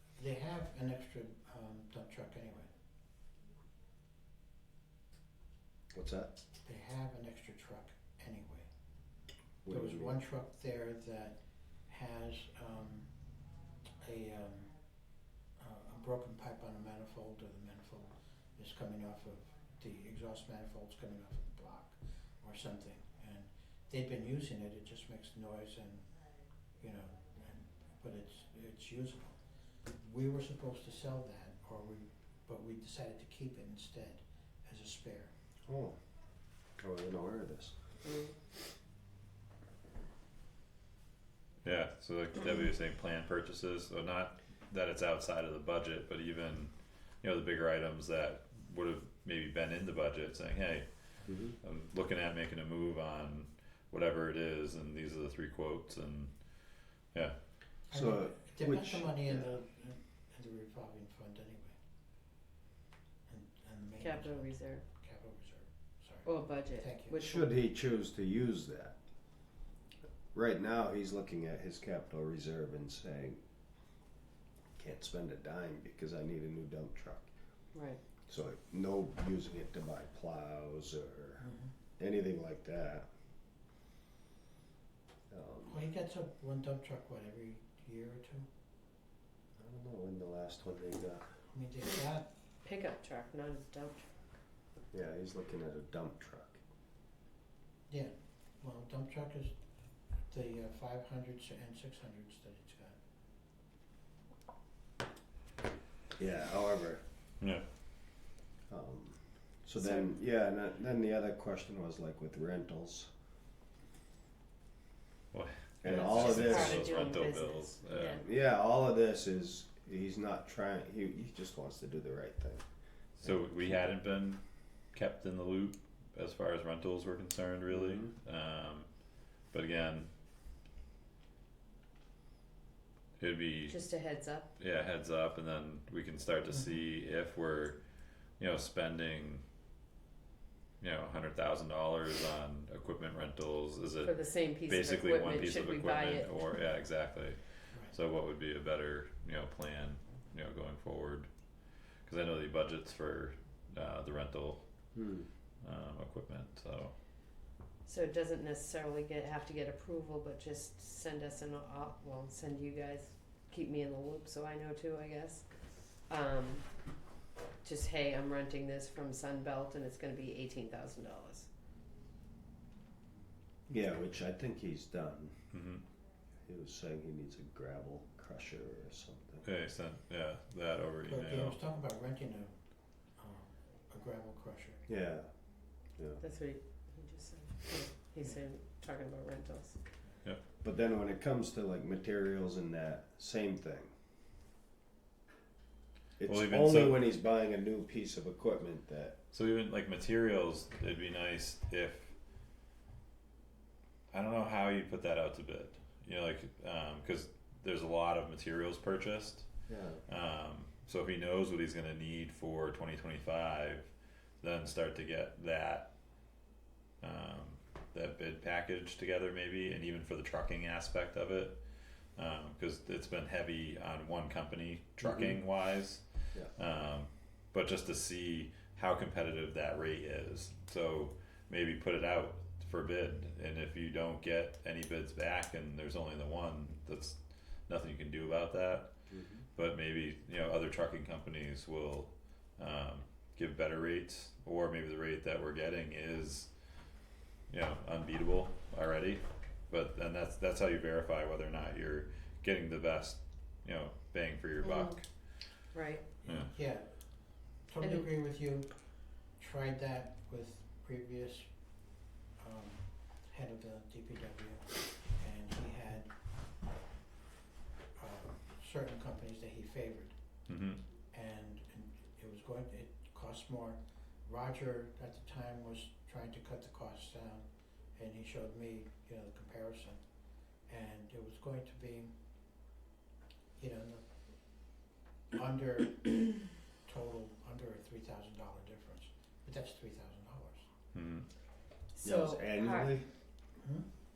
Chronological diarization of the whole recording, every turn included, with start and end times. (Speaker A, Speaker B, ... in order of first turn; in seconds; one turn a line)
Speaker A: 0.2-2.7
Speaker B: 5.9-6.3
Speaker A: 6.7-8.7
Speaker B: 9.6-10.2
Speaker A: 9.7-13.1
Speaker A: 14.0-14.8
Speaker A: 15.6-26.1
Speaker A: 26.8-35.3
Speaker B: 35.7-36.0
Speaker B: 36.8-37.8
Speaker C: 38.1-38.3
Speaker D: 41.6-56.3
Speaker B: 51.3-51.6
Speaker A: 57.9-61.8
Speaker B: 57.9-59.5
Speaker A: 63.3-67.5
Speaker C: 64.0-64.8
Speaker C: 66.2-67.5
Speaker B: 67.2-69.0
Speaker B: 70.3-73.4
Speaker B: 74.8-77.3
Speaker C: 77.7-78.0
Speaker B: 78.3-81.5
Speaker A: 81.4-81.7
Speaker B: 82.0-83.1
Speaker B: 85.3-85.9
Speaker A: 85.7-88.5
Speaker B: 89.6-91.3
Speaker A: 91.5-92.3
Speaker C: 92.6-94.1
Speaker B: 94.9-96.6
Speaker A: 97.9-99.6
Speaker A: 100.3-103.0
Speaker B: 106.2-107.0
Speaker B: 108.7-113.1
Speaker D: 115.3-118.2
Speaker B: 115.8-117.0
Speaker C: 115.8-118.2
Speaker B: 118.2-122.7
Speaker D: 123.2-124.4
Speaker B: 123.2-123.9
Speaker D: 124.9-128.9
Speaker B: 127.7-128.1
Speaker D: 129.5-130.1
Speaker D: 133.2-133.8
Speaker C: 133.7-134.5
Speaker D: 134.6-137.8
Speaker D: 138.3-139.4
Speaker D: 140.8-151.3
Speaker C: 144.0-146.6
Speaker D: 152.0-154.6
Speaker B: 154.9-155.3
Speaker D: 155.6-156.9
Speaker C: 157.9-166.7
Speaker C: 167.6-171.5
Speaker B: 173.7-175.5
Speaker D: 175.5-175.8
Speaker B: 176.4-179.4
Speaker D: 179.4-181.6
Speaker A: 181.1-182.6
Speaker A: 183.2-184.8
Speaker B: 184.9-185.3
Speaker B: 186.0-186.2
Speaker C: 186.2-189.8
Speaker B: 190.6-193.9
Speaker B: 196.2-199.2
Speaker D: 196.3-197.0
Speaker D: 199.3-202.1
Speaker D: 204.1-209.5
Speaker B: 209.7-210.0
Speaker D: 210.1-215.9
Speaker D: 217.0-221.6
Speaker D: 222.2-238.9
Speaker B: 225.0-225.4
Speaker B: 239.1-239.4
Speaker D: 239.6-246.5
Speaker D: 247.5-255.1
Speaker C: 254.6-255.0
Speaker C: 255.7-256.1
Speaker A: 256.2-261.5
Speaker D: 256.3-256.5
Speaker C: 257.8-258.1
Speaker A: 262.4-266.1
Speaker A: 267.9-270.2
Speaker D: 270.5-270.8
Speaker A: 271.1-280.0
Speaker A: 280.7-282.1
Speaker A: 283.6-284.1
Speaker A: 285.3-290.7
Speaker D: 290.9-291.3
Speaker C: 291.9-293.0
Speaker B: 292.0-293.1
Speaker A: 293.6-293.9